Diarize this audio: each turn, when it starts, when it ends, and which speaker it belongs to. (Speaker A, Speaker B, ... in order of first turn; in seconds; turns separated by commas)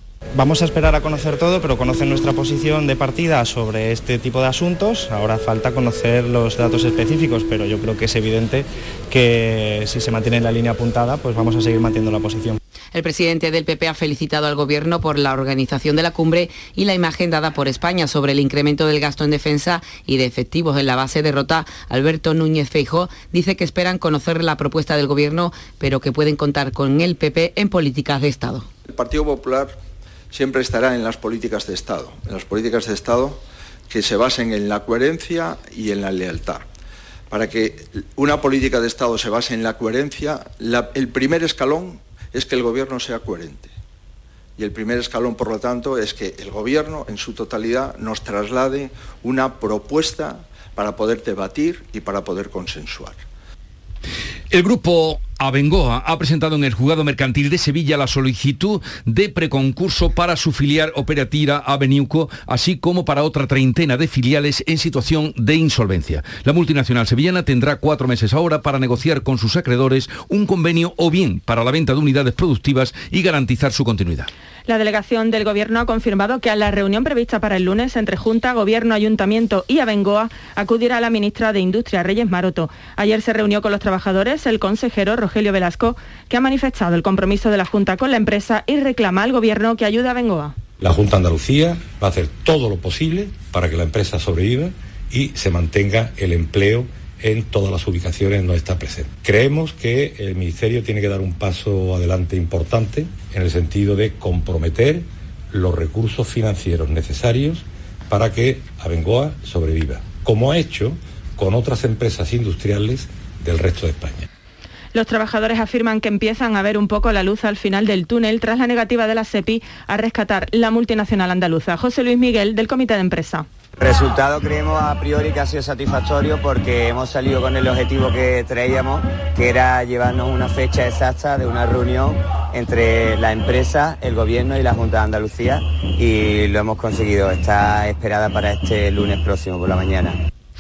Speaker A: 0.4-12.5, Speaker B: 12.9-28.6, Speaker C: 28.8-29.8, Speaker C: 30.3-36.7, Speaker C: 37.3-43.7, Speaker C: 44.6-53.2, Speaker D: 54.5-74.3, Speaker E: 74.7-90.5, Speaker F: 90.8-114.2, Speaker E: 114.9-123.5, Speaker G: 123.8-140.2